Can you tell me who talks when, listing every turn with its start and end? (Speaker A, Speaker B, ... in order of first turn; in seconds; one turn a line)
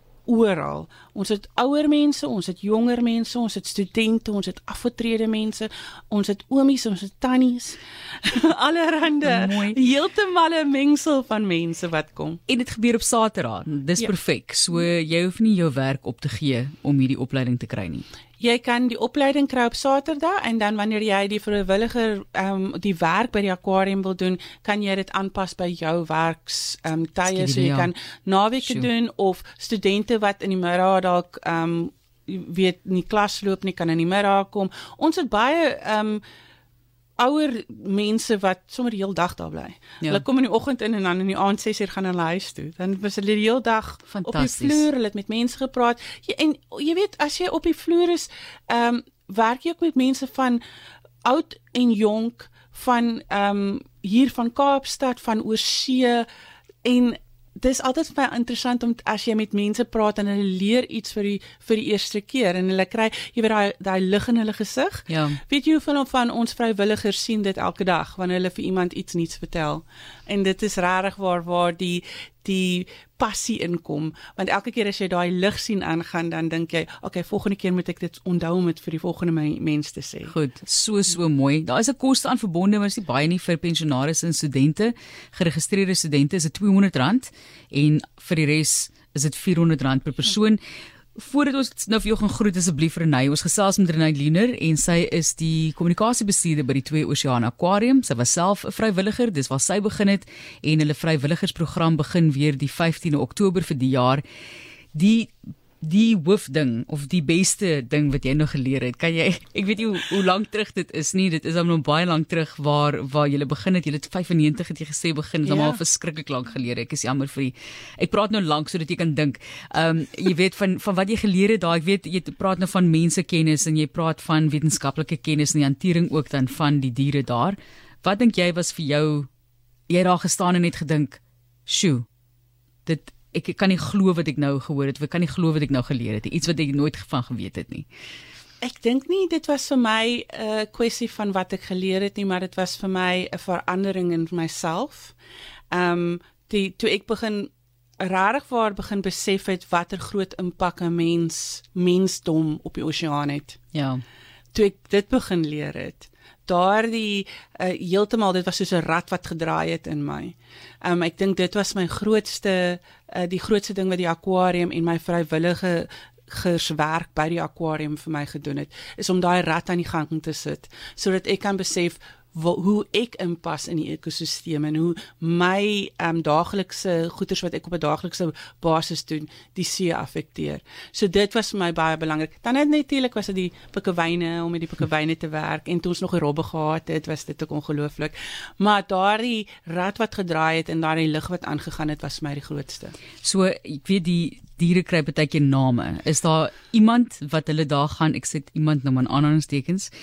Speaker A: 0.2-12.4
Speaker B: 9.2-9.8
Speaker B: 12.5-18.0
Speaker A: 18.4-36.2
Speaker B: 27.3-27.9
Speaker A: 37.2-50.6
Speaker B: 44.1-44.9
Speaker A: 51.2-56.3
Speaker A: 56.8-80.3
Speaker B: 65.1-65.4
Speaker B: 80.3-90.6
Speaker B: 91.2-104.2
Speaker B: 104.9-129.3
Speaker A: 115.4-115.8
Speaker B: 129.9-132.1
Speaker B: 132.9-137.9
Speaker A: 138.6-145.2
Speaker A: 145.7-153.6
Speaker B: 153.7-154.0
Speaker A: 154.5-192.9
Speaker B: 193.2-199.9